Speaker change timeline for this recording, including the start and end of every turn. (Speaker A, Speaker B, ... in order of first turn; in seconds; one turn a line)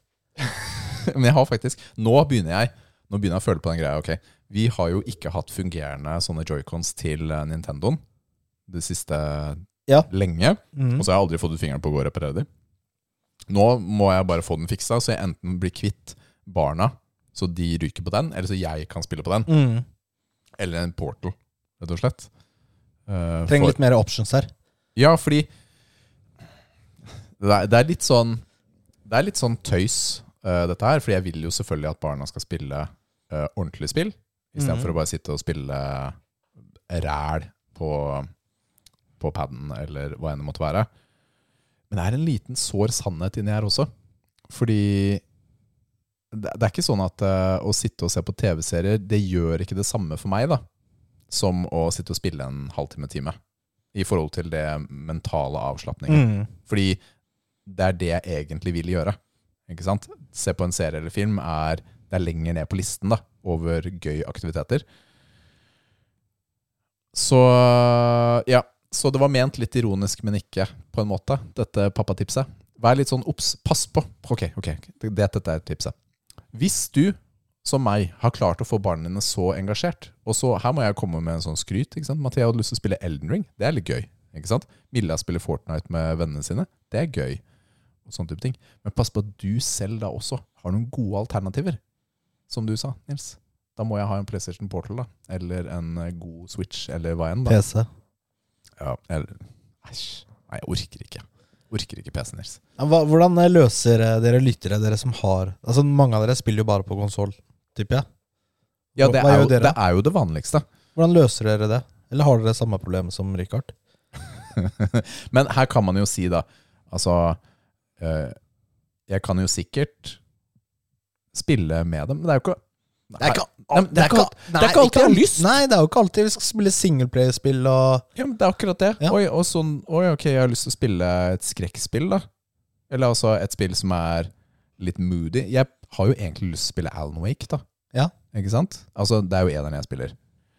Speaker A: 0.4-8.0
Speaker A: 8.7-12.5
Speaker B: 10.7-11.1
Speaker A: 13.5-19.5
Speaker B: 19.5-19.8
Speaker A: 20.6-22.3
Speaker A: 23.1-23.8
Speaker B: 23.5-24.5
Speaker A: 24.9-25.5
Speaker A: 27.4-28.4
Speaker A: 29.1-36.2
Speaker B: 34.6-34.9
Speaker A: 36.9-38.3
Speaker A: 39.2-40.9
Speaker A: 41.9-43.9
Speaker A: 44.5-45.2
Speaker A: 46.3-50.6
Speaker A: 51.3-53.4
Speaker A: 53.9-57.0
Speaker B: 56.1-56.5
Speaker A: 57.6-59.2
Speaker A: 59.7-64.8
Speaker A: 67.1-75.9
Speaker A: 76.5-87.4
Speaker A: 88.0-91.8
Speaker A: 92.5-97.6
Speaker B: 97.5-97.9
Speaker A: 98.8-102.6
Speaker B: 102.8-108.0
Speaker B: 109.0-109.8
Speaker A: 109.0-110.6
Speaker B: 111.0-113.7
Speaker A: 114.5-117.4
Speaker A: 118.0-118.3
Speaker A: 119.1-120.2
Speaker A: 121.3-125.5
Speaker B: 123.2-128.0
Speaker A: 128.1-132.2
Speaker A: 132.9-137.6
Speaker A: 138.3-140.1